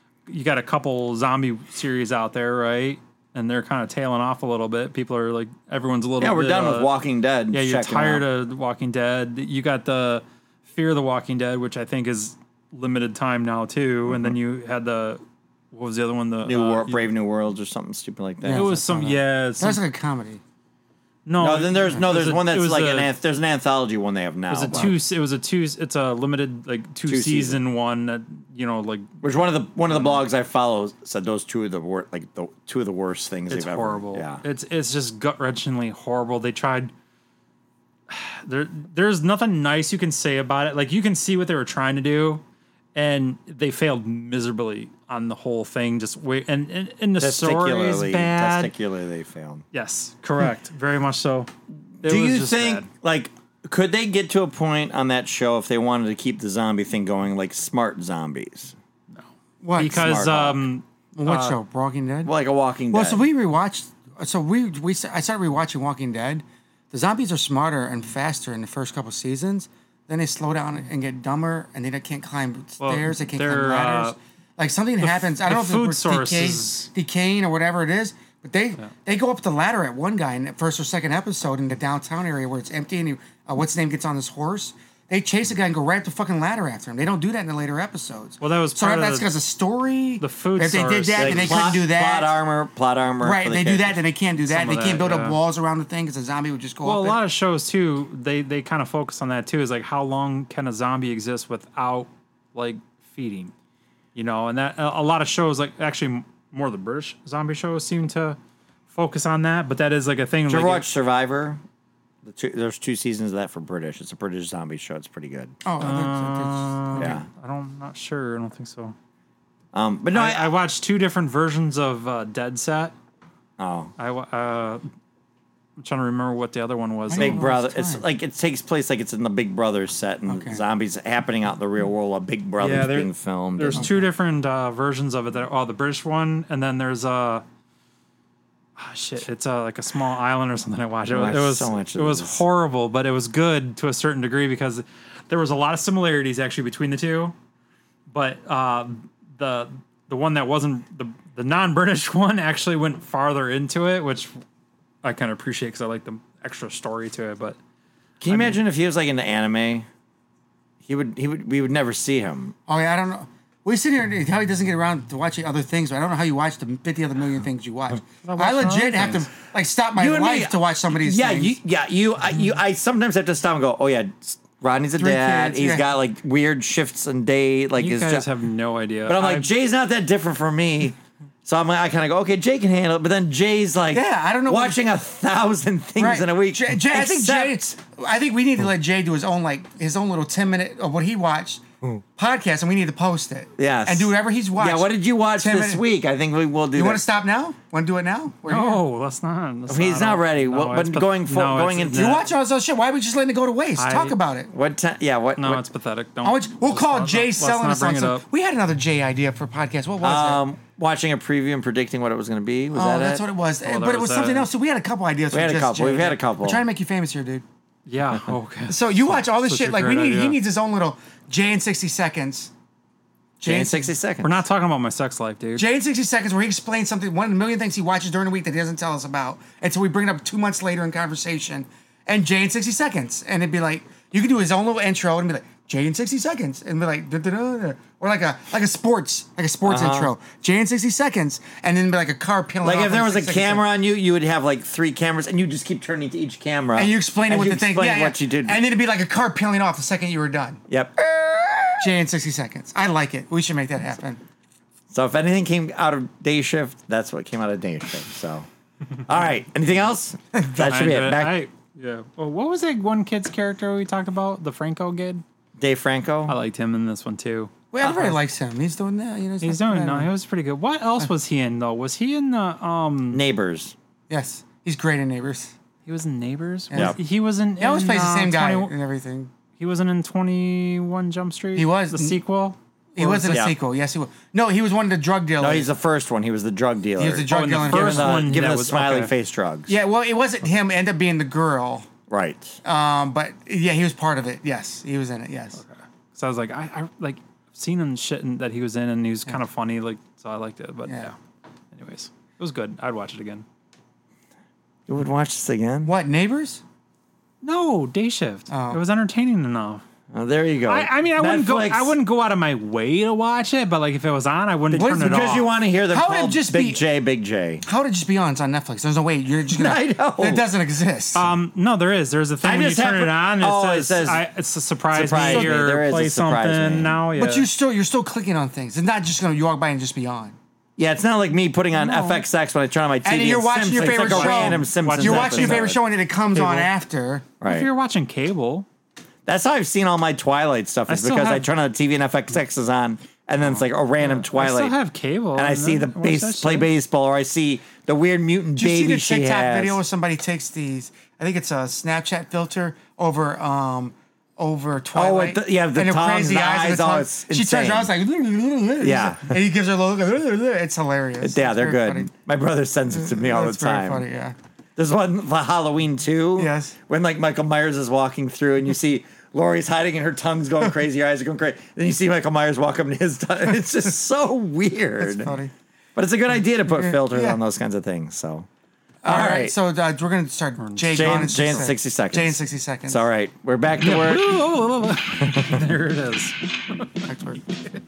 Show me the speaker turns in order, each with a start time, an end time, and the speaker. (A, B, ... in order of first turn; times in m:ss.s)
0:00.3-0:06.9 A
0:06.2-0:08.2 B
0:07.5-0:17.1 A
0:14.1-0:14.3 B
0:16.4-0:18.7 B
0:18.4-0:20.4 C
0:18.5-0:19.8 A
0:21.2-0:23.1 A
0:21.4-0:25.0 B
0:24.5-0:29.2 A
0:27.0-0:27.6 B
0:29.2-0:34.4 B
0:33.5-0:36.9 A
0:38.1-0:42.4 A
0:42.9-0:48.7 A
0:47.2-0:49.6 B
0:49.7-0:52.9 A
0:52.0-0:58.8 B
0:59.1-1:01.6 A
0:59.6-1:00.2 C
0:59.8-1:00.6 B
1:01.1-1:02.3 C
1:02.2-1:03.3 B
1:02.9-1:32.4 C
1:12.8-1:14.2 A
1:15.0-1:16.9 A
1:28.4-1:29.3 A
1:30.2-1:31.7 A
1:31.2-1:34.0 B
1:33.2-1:37.2 C
1:34.5-1:35.4 A
1:36.8-1:43.5 A
1:44.1-1:48.4 A
1:48.9-1:50.9 A
1:50.5-1:51.6 B
1:52.2-1:55.6 B
1:55.6-1:57.2 C
1:55.8-1:58.9 A
1:57.0-1:57.2 B
1:59.7-2:00.6 B
2:00.1-2:02.9 A
2:03.6-2:03.9 B
2:04.0-2:04.8 A
2:05.8-2:07.5 A
2:07.1-2:08.0 C
2:07.1-2:13.9 B
2:10.3-2:10.6 C
2:12.6-2:17.4 A
2:13.8-2:14.0 C
2:18.8-2:27.3 A
2:21.1-2:22.4 B
2:28.1-2:34.4 A
2:35.0-2:37.6 A
2:38.2-2:39.9 B
2:38.3-2:38.6 A
2:40.8-2:42.5 B
2:42.7-2:51.6 C
2:48.2-2:49.3 A
2:49.9-2:58.3 B
2:55.0-2:55.8 C
2:57.8-2:59.5 A
2:59.1-3:07.7 B
3:03.9-3:04.8 C
3:06.0-3:11.6 C
3:12.2-3:15.8 C
3:13.6-3:17.0 B
3:16.7-3:18.8 C
3:18.5-3:22.2 A
3:19.7-3:22.2 B
3:21.9-3:24.5 C
3:23.8-3:24.2 A
3:24.5-3:25.6 B
3:25.4-3:28.2 A
3:26.2-3:30.4 C
3:30.0-3:33.2 B
3:32.7-3:37.4 C
3:33.6-3:34.5 A
3:35.3-3:36.6 B
3:37.8-3:40.4 A
3:38.7-3:42.5 C
3:43.4-3:43.9 C
3:43.4-3:44.4 B
3:44.2-3:45.6 A
3:45.6-4:03.6 C
3:59.6-4:00.1 B
4:02.6-4:08.6 B
4:06.8-4:10.6 C
4:10.7-4:11.9 B
4:11.8-4:14.2 C
4:14.9-4:18.5 B
4:19.0-4:21.4 B
4:20.4-4:20.6 C
4:20.6-4:25.2 A
4:25.6-4:26.4 B
4:26.2-4:27.5 A
4:27.7-4:30.1 C
4:27.8-4:28.2 B
4:29.4-4:33.2 A
4:33.1-4:33.7 B
4:34.1-4:35.5 C
4:35.8-4:38.7 A
4:36.7-4:37.0 C
4:37.6-4:39.3 C
4:39.6-4:43.5 A
4:41.6-4:42.2 C
4:43.0-4:45.7 C
4:43.3-4:43.6 B
4:45.4-4:49.8 B
4:47.0-4:48.2 C
4:47.3-4:49.1 A
4:49.7-4:51.9 C
4:52.1-4:52.6 B
4:52.6-4:55.6 C
4:55.6-5:01.1 A
5:00.9-5:01.1 C
5:01.7-5:03.4 A
5:04.9-5:05.9 B
5:05.8-5:06.6 C
5:07.4-5:09.8 A
5:08.5-5:08.8 C
5:10.1-5:11.9 B
5:10.7-5:15.5 A
5:14.7-5:17.6 B
5:15.1-5:15.4 C
5:15.9-5:16.8 C
5:17.6-5:21.3 C
5:19.5-5:20.5 B
5:21.1-5:27.5 A
5:22.4-5:24.2 B
5:24.9-5:27.0 B
5:25.2-5:25.6 C
5:27.1-5:30.4 C
5:30.8-5:35.8 B
5:31.7-5:32.2 A
5:33.0-5:37.3 C
5:33.8-5:35.7 A
5:36.3-5:36.7 A
5:37.4-5:37.7 B
5:37.4-5:38.6 A
5:39.2-5:44.8 B
5:40.9-5:41.5 A
5:44.0-5:46.7 A
5:45.3-5:49.8 B
5:48.6-6:02.1 C
5:54.9-5:57.9 B
5:58.8-5:59.4 B
6:01.2-6:04.1 B
6:02.9-6:04.4 C
6:04.8-6:15.4 B
6:06.4-6:06.8 C
6:15.0-6:15.5 C
6:16.0-6:18.5 B
6:16.7-6:17.4 C
6:19.0-6:23.0 C
6:19.0-6:19.5 B
6:20.6-6:21.3 A
6:20.9-6:24.3 B
6:23.8-6:26.8 A
6:25.1-6:25.6 B
6:27.0-6:27.4 C